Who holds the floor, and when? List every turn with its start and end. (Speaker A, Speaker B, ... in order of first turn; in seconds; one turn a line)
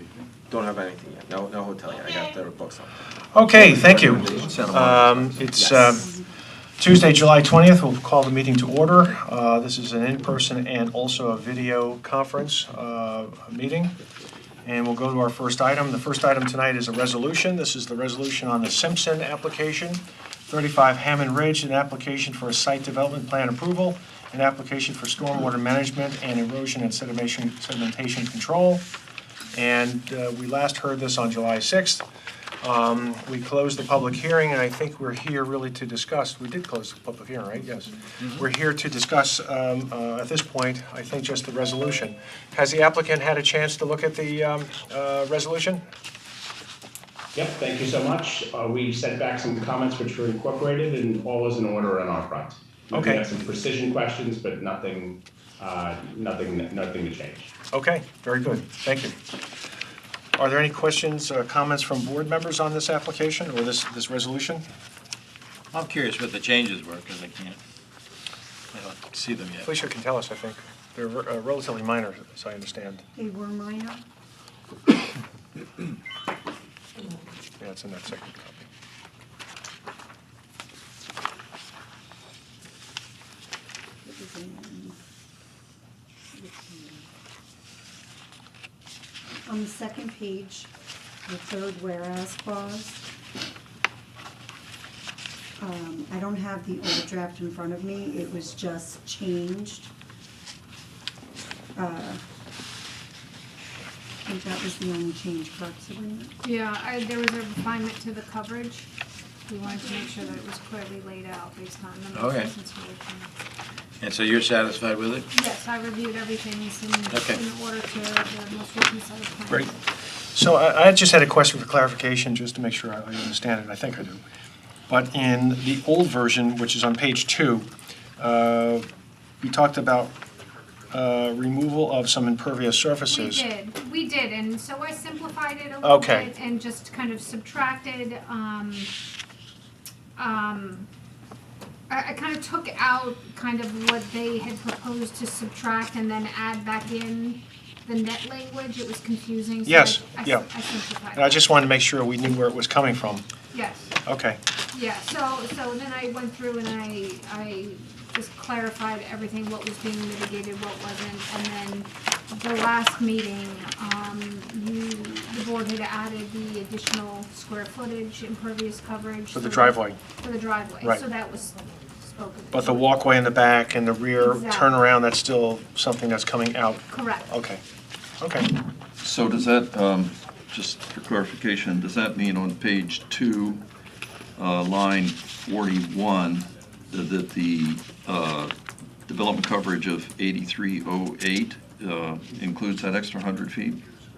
Speaker A: 0.5-4.8
Speaker B: 3.3-6.1
Speaker C: 3.5-5.5
Speaker D: 5.6-6.4
Speaker B: 6.8-14.0
Speaker B: 14.7-28.9
Speaker B: 29.5-32.0
Speaker B: 32.6-45.8
Speaker E: 47.4-57.5
Speaker B: 52.9-53.3
Speaker B: 57.7-59.2
Speaker B: 60.4-64.6
Speaker F: 65.7-67.6
Speaker F: 68.7-69.7
Speaker B: 69.6-73.0
Speaker D: 73.2-74.0
Speaker B: 77.6-78.7
Speaker D: 84.0-85.0
Speaker D: 86.3-87.1
Speaker D: 89.5-90.7
Speaker D: 91.3-93.0
Speaker D: 95.6-99.9
Speaker D: 101.8-102.2
Speaker D: 104.2-106.3
Speaker G: 106.4-108.9
Speaker G: 109.5-113.3
Speaker F: 112.2-112.5
Speaker F: 114.0-115.2
Speaker G: 115.3-119.8
Speaker B: 120.3-124.2
Speaker B: 124.9-128.9
Speaker B: 129.4-130.2
Speaker B: 130.9-133.4
Speaker G: 133.1-138.9
Speaker B: 135.8-136.3
Speaker G: 140.2-140.9
Speaker G: 141.9-151.4
Speaker B: 149.7-150.5
Speaker B: 151.1-153.2
Speaker G: 153.5-153.9
Speaker B: 154.1-154.4
Speaker G: 154.7-172.9
Speaker B: 169.3-170.0
Speaker B: 172.5-177.6
Speaker G: 174.2-174.7
Speaker G: 176.9-177.3
Speaker B: 178.2-178.5
Speaker C: 179.0-183.7
Speaker C: 184.4-188.5
Speaker C: 189.1-193.8